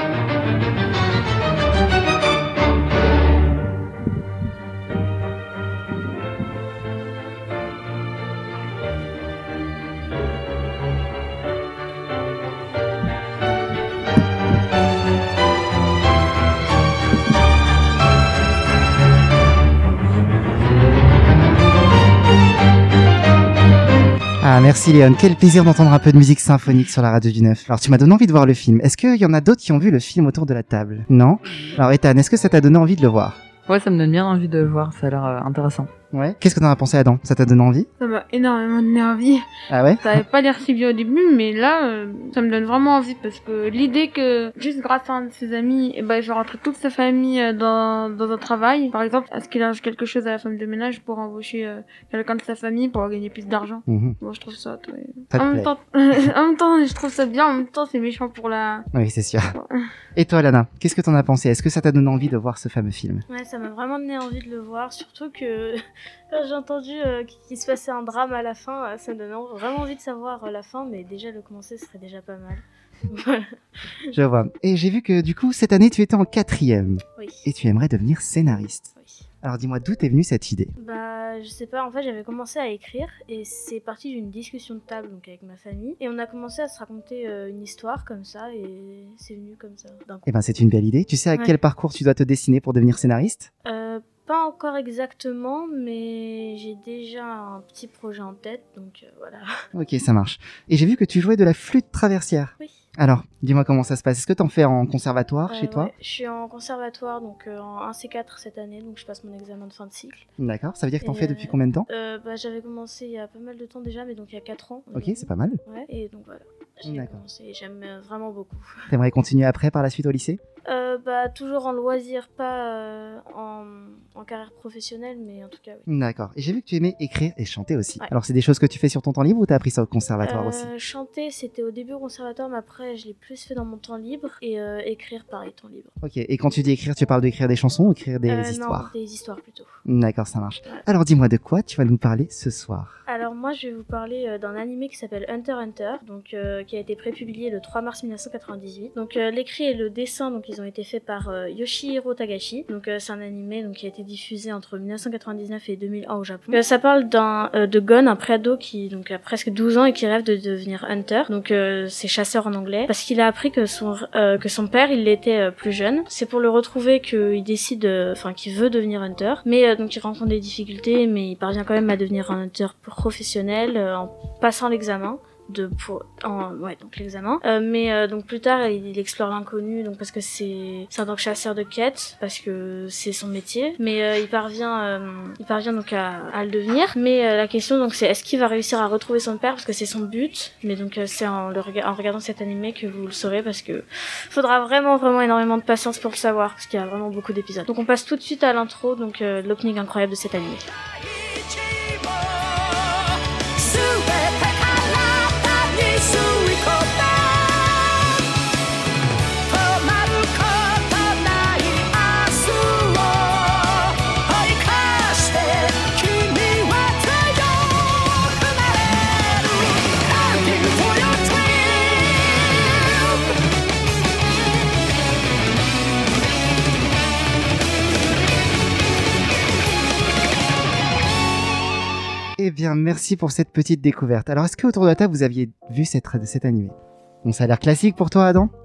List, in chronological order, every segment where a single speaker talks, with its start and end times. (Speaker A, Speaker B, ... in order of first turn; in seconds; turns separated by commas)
Speaker A: 24.4-33.4, Speaker B: 33.7-35.9, Speaker A: 36.1-37.9, Speaker C: 38.0-39.5, Speaker A: 39.7-40.2, Speaker C: 40.0-58.9, Speaker A: 53.9-54.2, Speaker A: 55.3-55.7, Speaker A: 58.9-59.5, Speaker C: 59.5-59.8, Speaker A: 60.2-63.2, Speaker D: 63.3-74.1, Speaker A: 74.1-80.7, Speaker D: 77.2-77.5, Speaker D: 79.0-79.2, Speaker D: 80.8-90.3, Speaker A: 90.3-93.5, Speaker D: 93.7-99.5, Speaker A: 99.7-105.9, Speaker D: 105.5-110.3, Speaker A: 110.4-111.9, Speaker D: 111.0-118.9, Speaker A: 114.9-115.6, Speaker A: 116.8-117.2, Speaker A: 118.9-120.4, Speaker D: 120.7-125.9, Speaker A: 125.9-130.7, Speaker D: 130.2-135.9, Speaker A: 136.0-138.9, Speaker D: 138.3-139.7, Speaker A: 139.9-143.0, Speaker D: 143.1-200.7, Speaker E: 201.0-208.2, Speaker E: 209.5-223.3, Speaker A: 232.4-238.5